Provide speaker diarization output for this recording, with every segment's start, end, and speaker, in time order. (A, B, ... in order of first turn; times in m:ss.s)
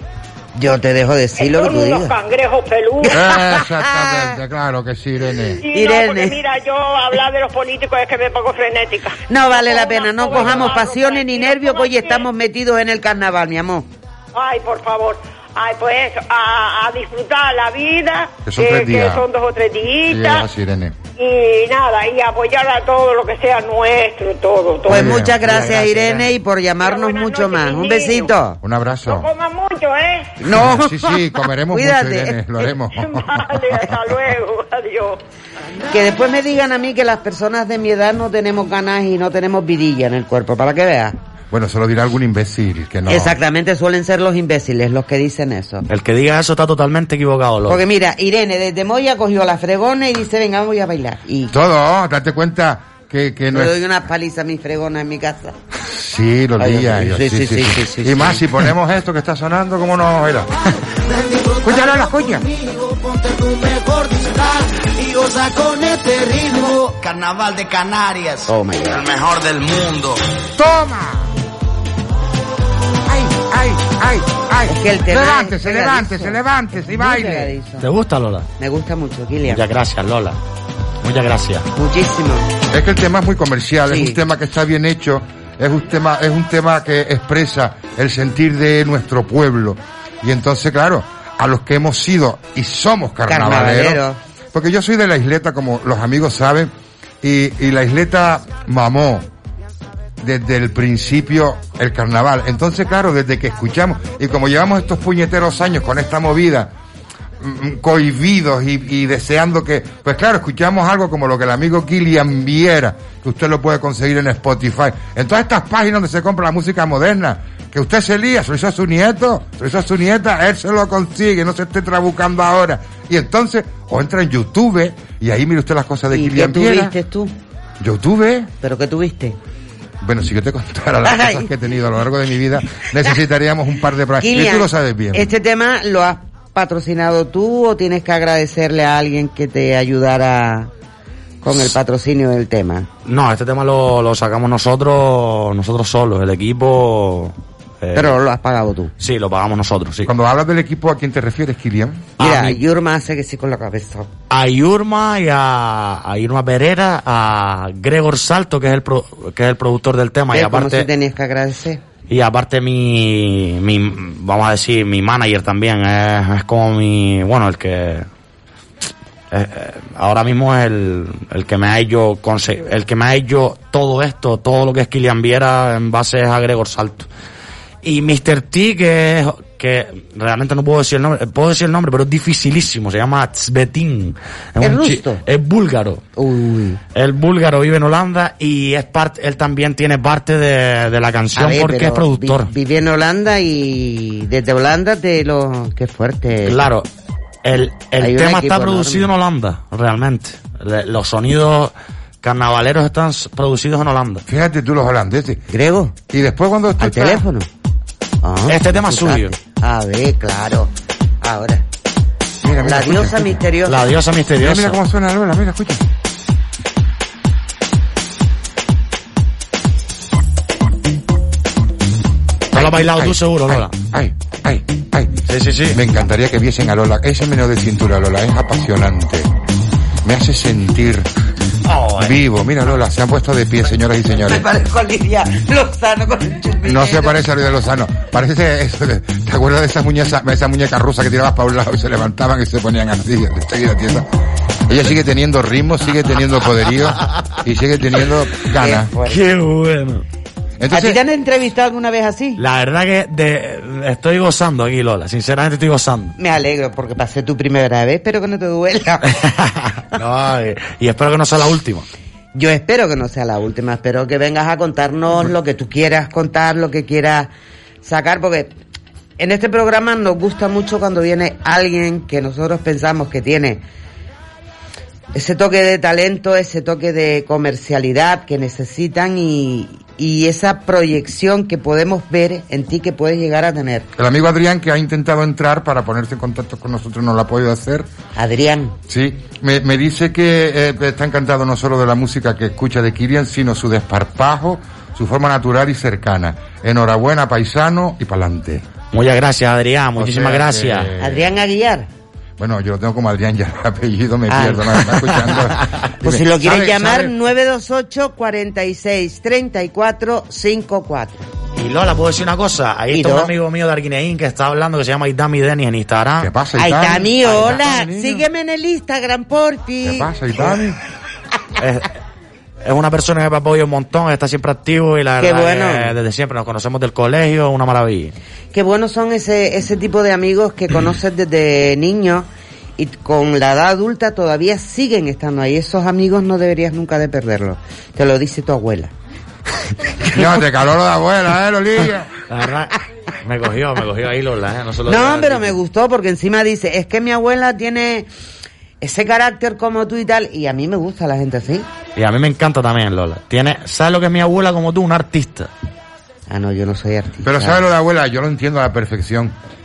0:00.6-0:02.1 A
0:01.4-0:03.3 B
0:03.0-0:04.4 A
0:03.1-0:05.6 C
0:05.6-0:12.3 B
0:05.6-0:06.4 A
0:09.3-0:13.9 A
0:14.3-0:20.5 B
0:18.4-0:19.2 C
0:20.1-0:21.0 C
0:21.2-0:25.1 B
0:24.9-0:26.2 C
0:24.9-0:28.6 A
0:26.8-0:28.4 B
0:28.6-0:29.3 C
0:29.1-0:30.4 B
0:30.4-0:31.2 A
0:30.4-0:34.0 C
0:31.7-0:32.4 A
0:32.9-0:35.2 B
0:35.9-0:41.2 A
0:41.5-0:43.4 C
0:43.1-0:45.8 A
0:45.9-0:47.8 D
0:47.7-0:51.5 A
0:51.5-0:53.8 C
0:53.5-0:55.6 A
0:55.8-1:00.5 C
0:56.6-0:58.4 A
1:00.7-1:10.2 E
1:01.6-1:02.4 C
1:08.5-1:09.0 A
1:10.6-1:11.3 C
1:13.1-1:17.5 C
1:14.7-1:17.9 A
1:17.8-1:18.5 D
1:18.6-1:19.6 A
1:19.5-1:20.4 D
1:21.0-1:21.7 D
1:21.8-1:22.5 A
1:22.7-1:34.0 C
1:23.9-1:24.2 A
1:33.3-1:34.2 A
1:34.5-1:39.3 C
1:40.2-1:46.7 C
1:47.4-2:06.9 C
2:06.1-2:07.3 A
2:07.8-2:08.5 C
2:08.6-2:09.4 A
2:10.0-2:15.3 C
2:11.0-2:11.5 A
2:14.2-2:20.7 A
2:21.4-2:22.9 A
2:23.0-2:28.2 D
2:28.0-2:28.9 A
2:29.0-2:30.1 D
2:30.0-2:32.1 C
2:32.2-2:32.6 D
2:32.2-2:34.1 A
2:34.3-2:40.9 D
2:40.3-2:41.8 A
2:42.1-2:48.1 D
2:49.3-2:57.1 D
2:57.8-3:06.0 D
3:04.6-3:05.2 A
3:06.2-3:06.8 A
3:07.0-3:12.5 D
3:11.4-3:16.6 A
3:16.4-3:16.9 D
3:17.4-3:24.2 D
3:18.0-3:19.1 A
3:24.3-3:25.4 C
3:25.5-3:26.0 A
3:26.1-3:27.2 C
3:26.8-3:27.5 A
3:28.2-3:31.6 A
3:28.5-3:29.3 D
3:32.4-3:33.3 C
3:32.6-3:33.8 A
3:33.6-3:34.8 D
3:34.4-3:35.8 C
3:42.5-3:43.7 D
3:42.5-3:49.3 C
3:45.3-3:45.8 D
3:50.0-3:51.1 C
3:51.7-3:52.2 D
3:52.0-3:54.4 C
3:54.2-3:57.2 A
3:56.6-4:04.1 C
4:04.7-4:08.9 C
4:08.6-4:09.2 A
4:09.1-4:10.0 D
4:10.6-4:11.0 C
4:10.7-4:12.4 A
4:12.4-4:16.2 D
4:16.2-4:19.2 A
4:19.2-4:21.9 D
4:22.4-4:27.3 A
4:27.8-4:28.5 A
4:29.2-4:33.6 A
4:35.1-4:43.9 A
4:44.0-4:47.9 C
4:48.2-4:48.8 A
4:48.9-4:58.6 C
4:58.9-5:00.9 D
5:00.0-5:01.3 C
5:01.0-5:01.9 A
5:02.4-5:07.1 C
5:04.3-5:04.8 A
5:06.0-5:11.2 A
5:11.6-5:16.3 D
5:12.9-5:13.3 A
5:16.2-5:18.2 C
5:16.6-5:20.6 A
5:19.8-5:20.8 C
5:21.6-5:21.9 D
5:22.6-5:28.2 D
5:25.2-5:25.9 A
5:28.5-5:32.3 A
5:32.8-5:38.9 A
5:40.1-5:42.1 C
5:42.3-5:45.6 D
5:44.9-5:48.1 A
5:48.8-5:51.7 A
5:52.0-5:55.5 D
5:56.3-5:57.6 A
5:57.2-5:59.3 C